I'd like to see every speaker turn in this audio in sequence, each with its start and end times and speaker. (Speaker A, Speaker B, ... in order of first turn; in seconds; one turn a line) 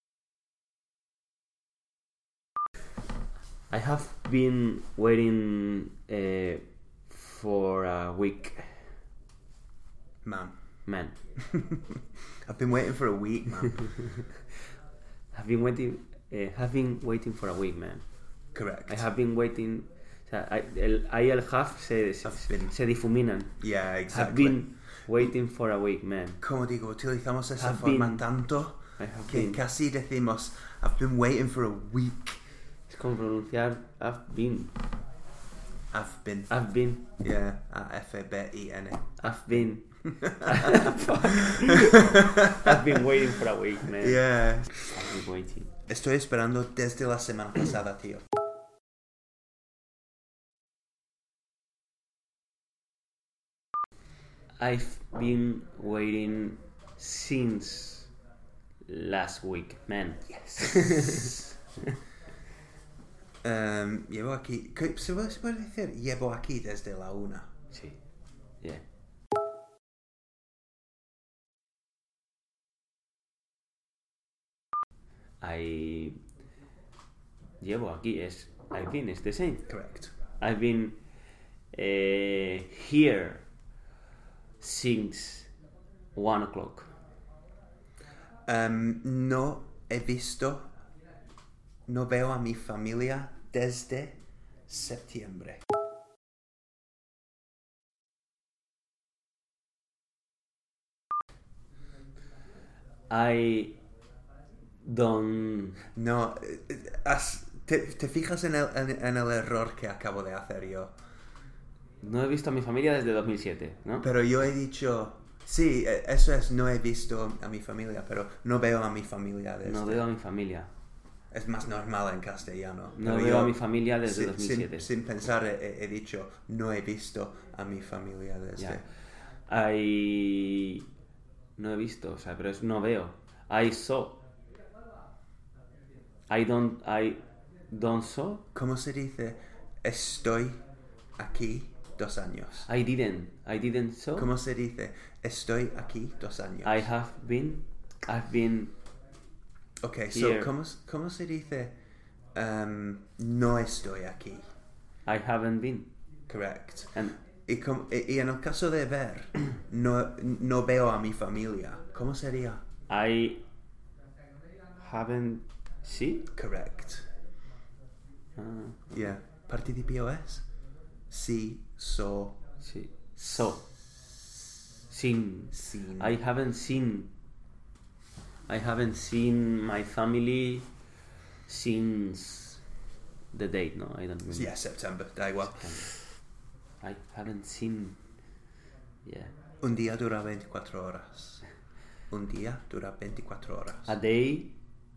Speaker A: 3.7-8.9
Speaker B: 10.2-10.6
Speaker A: 10.9-11.2
Speaker B: 11.4-13.9
Speaker A: 13.8-14.3
Speaker A: 15.3-18.1
Speaker B: 18.5-19.1
Speaker A: 18.9-26.4
Speaker B: 22.2-22.8
Speaker B: 23.6-24.7
Speaker B: 26.4-32.4
Speaker A: 27.6-28.2
Speaker A: 29.0-29.6
Speaker A: 32.9-34.7
Speaker B: 35.9-36.5
Speaker A: 36.5-37.1
Speaker B: 37.2-39.2
Speaker A: 39.2-44.2
Speaker B: 40.0-43.0
Speaker B: 43.8-45.0
Speaker A: 44.8-45.7
Speaker B: 45.9-48.3
Speaker A: 54.6-58.1
Speaker A: 58.9-61.4
Speaker B: 60.3-61.5
Speaker B: 63.4-67.5
Speaker A: 67.7-68.0
Speaker A: 75.4-76.2
Speaker A: 77.6-79.7
Speaker B: 79.7-80.1
Speaker A: 80.4-81.0
Speaker A: 81.7-83.5
Speaker A: 84.6-85.5
Speaker A: 86.2-86.9
Speaker B: 88.5-90.7
Speaker B: 91.9-95.6
Speaker A: 103.1-103.8
Speaker A: 104.8-105.9
Speaker B: 105.9-111.0
Speaker A: 112.0-114.1
Speaker B: 114.0-120.0
Speaker A: 119.7-120.7
Speaker B: 121.3-128.8
Speaker A: 123.0-124.9
Speaker A: 128.6-128.8
Speaker A: 129.5-130.9
Speaker A: 131.6-134.2
Speaker A: 136.3-138.4
Speaker B: 138.5-140.6
Speaker B: 141.2-142.7
Speaker A: 142.7-144.3
Speaker B: 144.2-146.9
Speaker A: 146.6-148.7
Speaker B: 149.8-151.7
Speaker A: 150.1-150.5
Speaker B: 152.3-154.4
Speaker A: 155.1-155.9
Speaker B: 156.3-162.6
Speaker A: 162.9-163.4
Speaker A: 164.8-166.3
Speaker B: 166.3-167.1
Speaker A: 168.4-168.9
Speaker B: 168.9-170.4
Speaker B: 171.1-172.4
Speaker A: 172.6-173.7
Speaker A: 174.9-177.1
Speaker B: 175.5-176.2
Speaker A: 178.5-180.7
Speaker A: 181.5-182.6
Speaker A: 183.3-184.5
Speaker B: 184.3-185.9
Speaker A: 185.4-186.1
Speaker A: 186.8-188.0
Speaker A: 189.0-189.3
Speaker B: 189.6-191.4
Speaker B: 192.1-193.9
Speaker A: 193.9-194.6